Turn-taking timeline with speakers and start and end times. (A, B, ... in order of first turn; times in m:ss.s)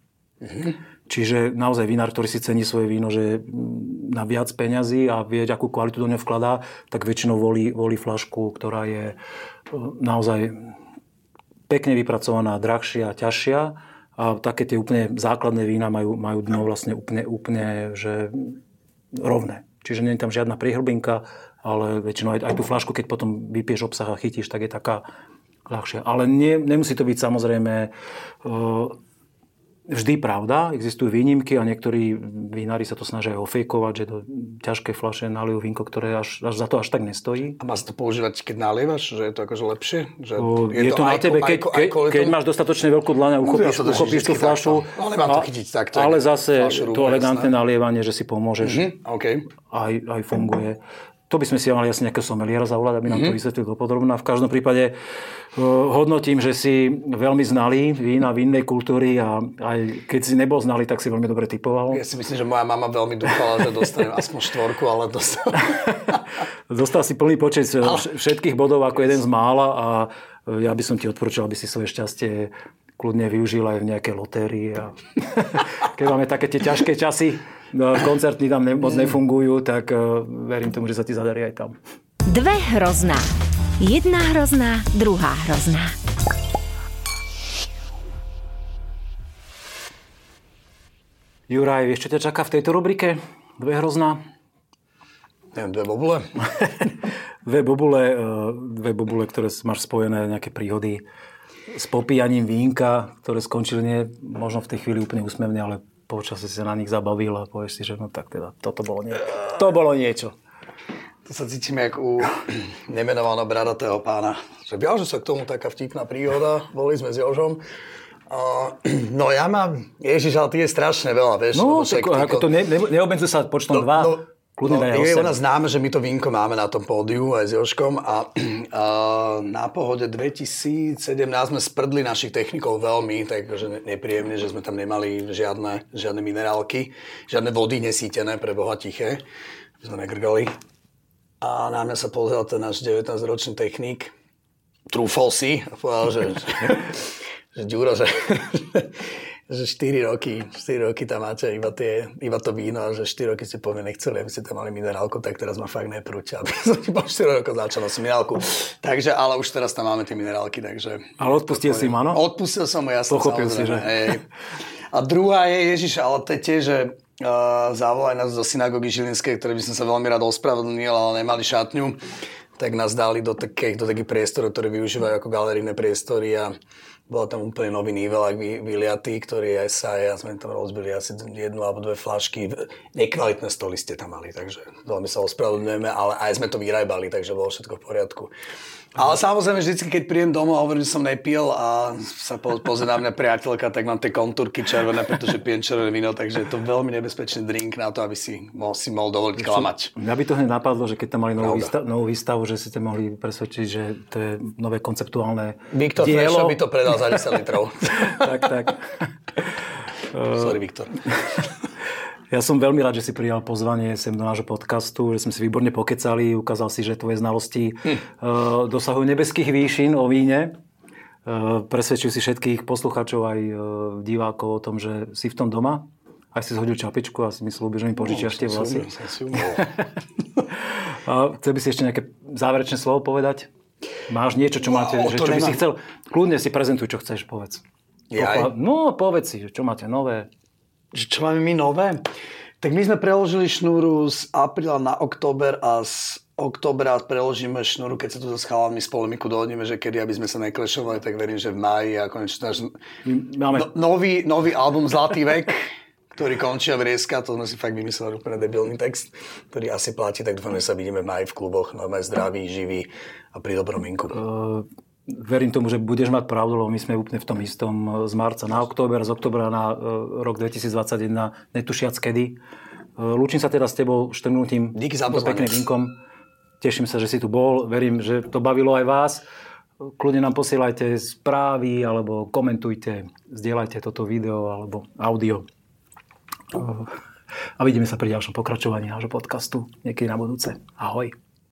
0:00.4-0:00.8 A
0:01.1-0:09.2 B
0:09.7-0:10.7 B
0:11.7-0:18.6 B
0:19.1-0:25.0 B
0:25.7-0:27.9 B
0:28.4-0:29.0 B
0:29.9-0:37.6 B
0:37.6-0:42.4 A
0:40.4-0:48.9 B
0:43.4-0:47.5 A
0:48.6-0:49.5 A
0:49.7-0:55.0 B
0:53.1-0:53.4 A
0:55.5-1:02.0 B
1:01.9-1:05.8 A
1:05.6-1:06.2 B
1:06.7-1:21.8 B
1:22.2-1:26.0 C
1:31.5-1:34.2 B
1:35.5-1:36.3 A
1:36.6-1:41.0 B
1:41.7-1:50.3 B
1:51.2-1:57.6 A
1:58.3-2:02.5 A
2:01.5-2:05.4 B
2:03.8-2:19.2 A
2:19.8-2:20.5 A
2:21.4-2:24.1 A
2:24.9-2:27.0 A
2:27.5-2:28.9 A
2:29.5-2:44.2 A
2:41.2-2:42.2 B
2:43.1-2:44.1 B
2:44.9-2:52.0 A
2:52.6-2:56.5 A
2:57.1-3:08.3 A
3:08.9-3:19.9 A
3:19.4-3:27.2 B
3:21.4-3:21.7 A
3:25.7-3:28.2 A
3:27.9-3:28.8 B
3:30.1-3:30.6 B
3:30.2-3:31.0 A
3:32.3-3:40.5 B
3:41.2-3:49.6 B
3:48.0-3:49.8 A
3:50.6-3:53.5 B
3:54.1-3:57.6 B
3:54.6-3:55.6 A
3:58.1-3:58.5 A
3:58.2-4:00.3 B
4:00.9-4:02.0 A
4:02.6-4:12.7 A
4:13.0-4:13.7 B
4:13.5-4:24.2 A
4:24.1-4:32.4 B
4:33.0-4:35.9 B
4:34.7-4:35.6 A
4:36.6-4:39.2 B
4:39.8-4:45.4 B
4:46.5-4:46.9 B
4:47.6-4:51.1 B